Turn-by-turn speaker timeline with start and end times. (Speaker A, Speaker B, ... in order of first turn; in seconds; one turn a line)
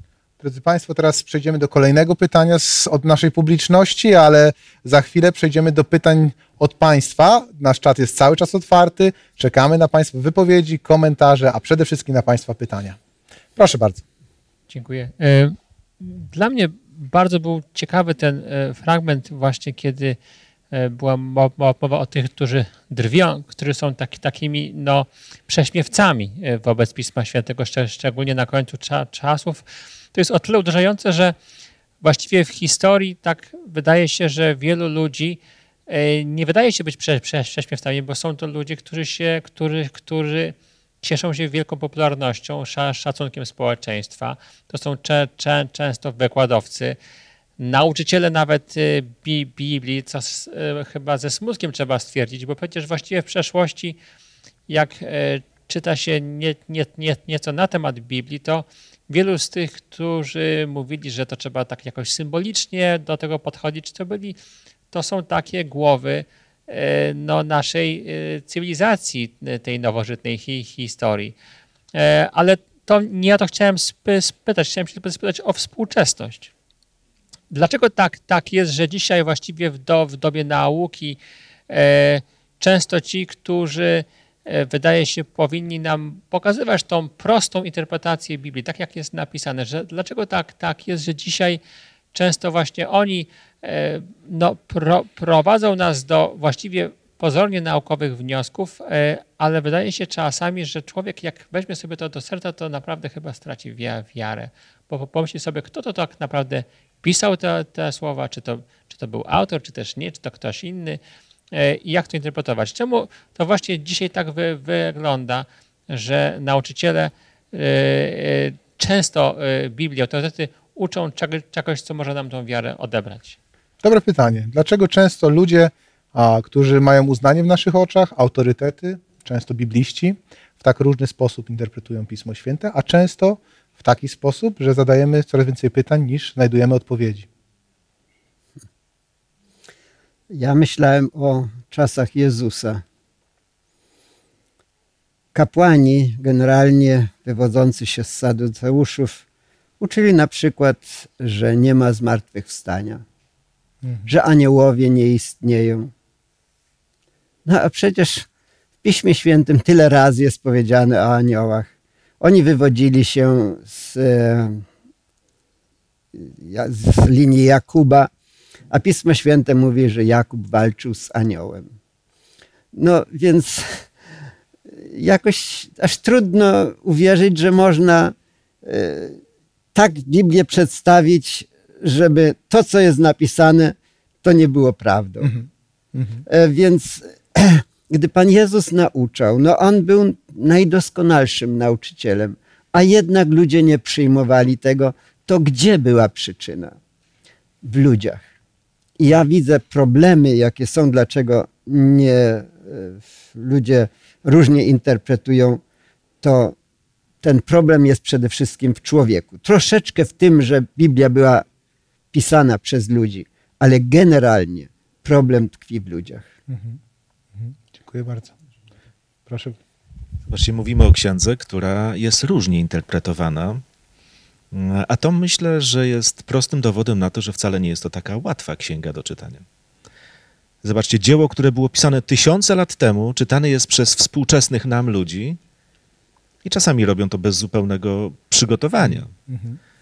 Speaker A: 0.4-13.0
Speaker A: 13.6-14.0
Speaker B: 14.7-20.2
Speaker B: 20.7-31.3
Speaker B: 32.0-47.0
Speaker B: 47.6-54.0
Speaker B: 54.7-64.4
Speaker B: 64.9-71.3
Speaker B: 71.9-76.5
Speaker B: 77.5-91.6
Speaker B: 92.1-111.0
Speaker B: 111.5-123.4
Speaker A: 123.8-137.3
Speaker C: 140.3-142.8
Speaker C: 145.3-149.2
Speaker C: 149.8-153.0
Speaker A: 153.8-154.1
Speaker C: 154.1-155.9
Speaker C: 157.4-158.3
Speaker C: 158.8-161.7
Speaker C: 162.2-164.6
Speaker C: 166.1-168.1
Speaker C: 168.7-171.7
Speaker C: 172.7-173.8
Speaker C: 174.8-179.2
Speaker C: 179.7-185.3
Speaker A: 185.2-186.2
Speaker C: 186.2-196.8
Speaker C: 197.6-198.3
Speaker C: 199.0-205.6
Speaker C: 206.2-206.6
Speaker C: 207.2-211.4
Speaker C: 212.1-216.3
Speaker A: 216.5-216.8
Speaker A: 217.3-218.3
Speaker A: 219.3-219.6
Speaker D: 220.3-223.6
Speaker D: 224.5-229.4
Speaker D: 230.6-235.4
Speaker D: 236.4-239.1
Speaker A: 238.8-239.6